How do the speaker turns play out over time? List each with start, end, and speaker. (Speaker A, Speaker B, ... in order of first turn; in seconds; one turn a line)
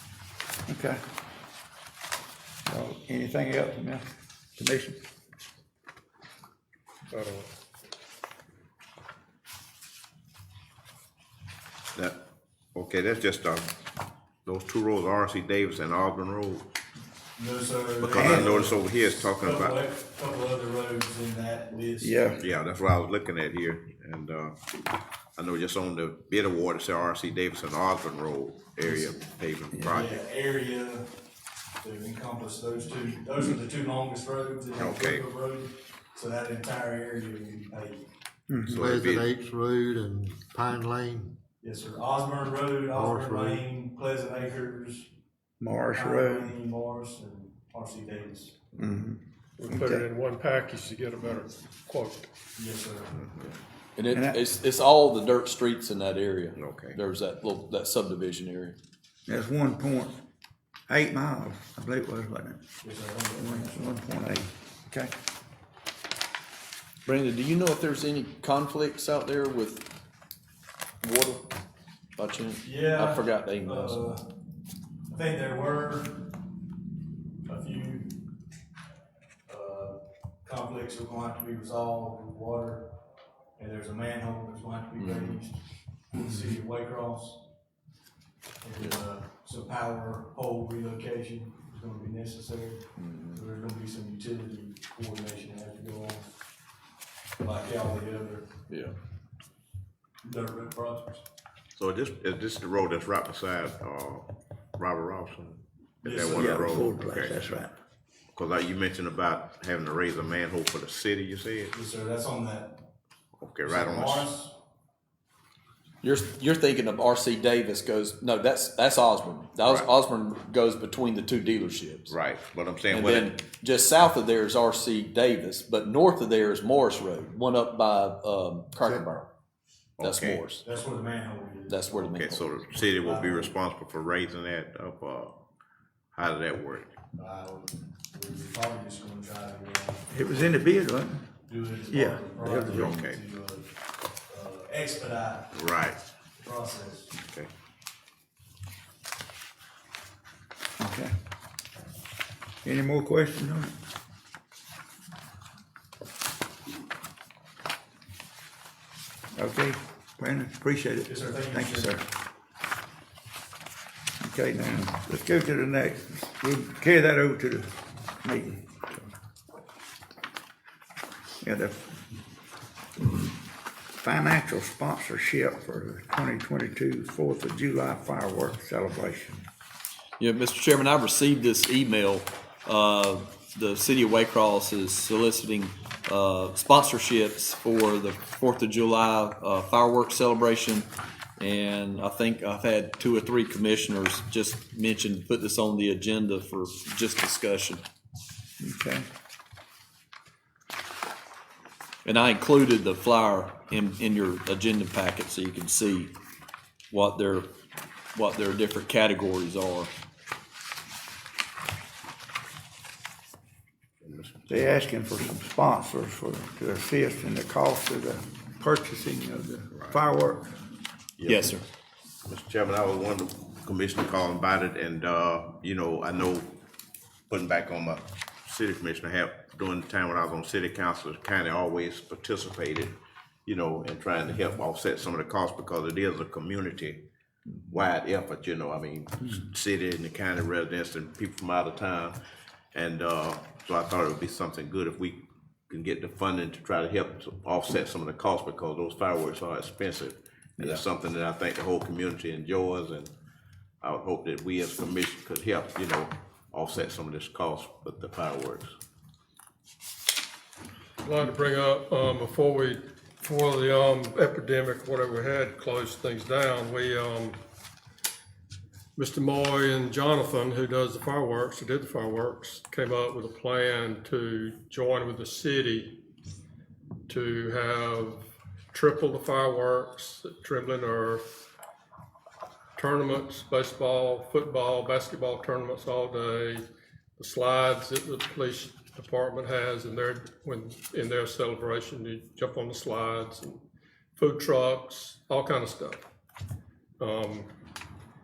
Speaker A: 0.7-1.0
Speaker A: 2.6-4.0
Speaker A: 4.6-5.0
Speaker B: 7.1-7.5
Speaker C: 12.7-13.7
Speaker C: 14.4-16.6
Speaker D: 17.4-22.4
Speaker C: 18.0-19.8
Speaker A: 18.1-18.5
Speaker A: 22.0-22.4
Speaker C: 22.4-24.6
Speaker C: 25.4-30.1
Speaker A: 29.7-30.0
Speaker D: 29.9-31.1
Speaker D: 31.8-38.0
Speaker C: 34.7-35.2
Speaker A: 38.5-38.9
Speaker C: 38.6-39.3
Speaker E: 38.7-41.4
Speaker D: 41.6-45.1
Speaker E: 42.9-43.6
Speaker A: 45.6-46.5
Speaker D: 45.9-48.6
Speaker A: 48.8-50.0
Speaker B: 49.6-52.3
Speaker D: 52.5-53.1
Speaker C: 53.1-53.5
Speaker F: 54.0-58.8
Speaker A: 54.1-54.4
Speaker C: 56.5-57.0
Speaker A: 59.3-60.1
Speaker A: 60.9-62.6
Speaker D: 62.8-64.0
Speaker A: 63.3-65.1
Speaker F: 67.0-69.8
Speaker F: 71.0-71.5
Speaker F: 72.2-74.0
Speaker D: 72.6-74.3
Speaker D: 75.1-76.2
Speaker D: 77.5-78.1
Speaker D: 79.5-82.9
Speaker D: 83.6-87.4
Speaker F: 85.0-85.4
Speaker D: 88.6-96.2
Speaker F: 93.0-93.4
Speaker D: 97.4-98.5
Speaker F: 98.7-98.9
Speaker D: 100.2-101.2
Speaker C: 101.8-107.5
Speaker D: 106.0-107.0
Speaker A: 106.3-107.7
Speaker C: 108.3-111.7
Speaker D: 111.7-112.8
Speaker C: 113.4-114.3
Speaker D: 113.7-114.5
Speaker F: 116.0-122.1
Speaker C: 119.6-119.9
Speaker C: 122.1-123.4
Speaker F: 122.9-129.2
Speaker C: 130.0-130.4
Speaker F: 130.0-130.6
Speaker D: 130.6-132.0
Speaker F: 131.7-132.5
Speaker C: 132.0-135.3
Speaker D: 132.7-133.5
Speaker C: 136.1-136.9
Speaker D: 137.1-140.7
Speaker A: 140.1-141.2
Speaker D: 141.4-143.7
Speaker A: 141.9-143.0
Speaker C: 142.7-143.2
Speaker D: 144.3-145.6
Speaker C: 145.5-146.0
Speaker D: 146.3-147.1
Speaker C: 147.2-147.5
Speaker A: 150.8-151.1
Speaker A: 152.6-153.7
Speaker A: 159.3-162.1
Speaker D: 161.1-161.9
Speaker A: 164.2-168.8
Speaker A: 171.4-172.0
Speaker A: 174.0-179.4
Speaker F: 180.2-197.8
Speaker A: 198.6-199.1
Speaker F: 202.0-206.1
Speaker F: 206.9-207.5
Speaker F: 208.1-209.9
Speaker C: 214.0-214.6
Speaker A: 214.5-220.4
Speaker C: 219.7-220.0
Speaker C: 221.2-221.5
Speaker F: 221.2-221.6
Speaker C: 222.2-226.5
Speaker C: 227.3-232.9
Speaker C: 233.4-237.0
Speaker C: 237.7-242.2
Speaker C: 242.7-253.1
Speaker A: 250.6-250.8
Speaker C: 253.8-258.7
Speaker B: 261.0-267.4
Speaker B: 268.9-276.0
Speaker B: 277.1-281.2
Speaker B: 282.8-286.6
Speaker B: 287.2-293.6
Speaker B: 294.1-296.0
Speaker B: 297.0-297.5